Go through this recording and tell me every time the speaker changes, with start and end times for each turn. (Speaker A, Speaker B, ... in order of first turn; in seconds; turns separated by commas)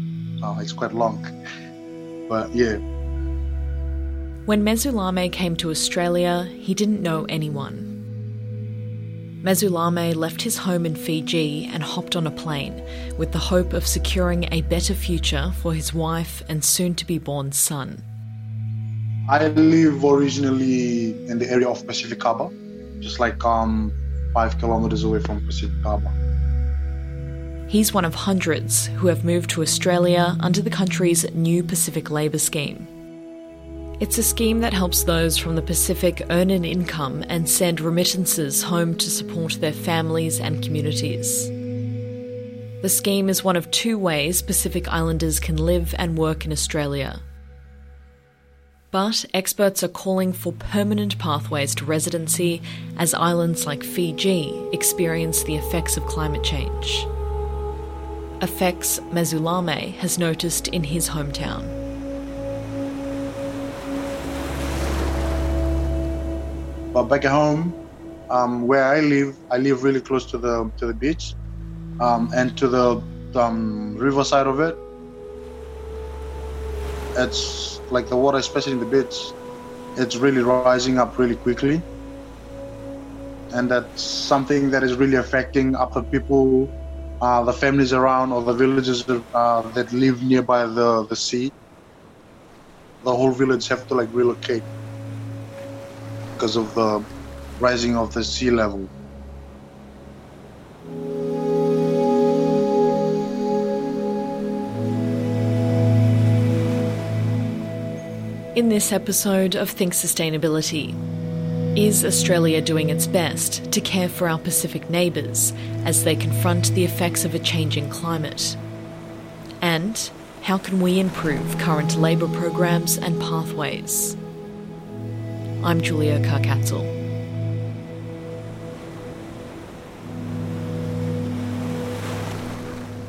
Speaker A: 0.4-1.3, Speaker A: 2.3-2.8, Speaker B: 4.5-7.9, Speaker B: 9.4-18.0, Speaker A: 19.3-26.1, Speaker B: 27.7-32.9, Speaker B: 34.0-41.5, Speaker B: 42.8-47.2, Speaker B: 48.9-57.1, Speaker B: 58.4-61.8, Speaker A: 66.9-67.8, Speaker A: 68.3-71.4, Speaker A: 72.0-74.8, Speaker A: 77.2-79.3, Speaker A: 80.0-81.8, Speaker A: 83.5-91.5, Speaker A: 93.0-94.7, Speaker A: 96.4-97.1, Speaker A: 97.6-98.9, Speaker B: 108.5-111.0, Speaker B: 111.8-118.6, Speaker B: 119.6-124.2, Speaker B: 125.6-126.9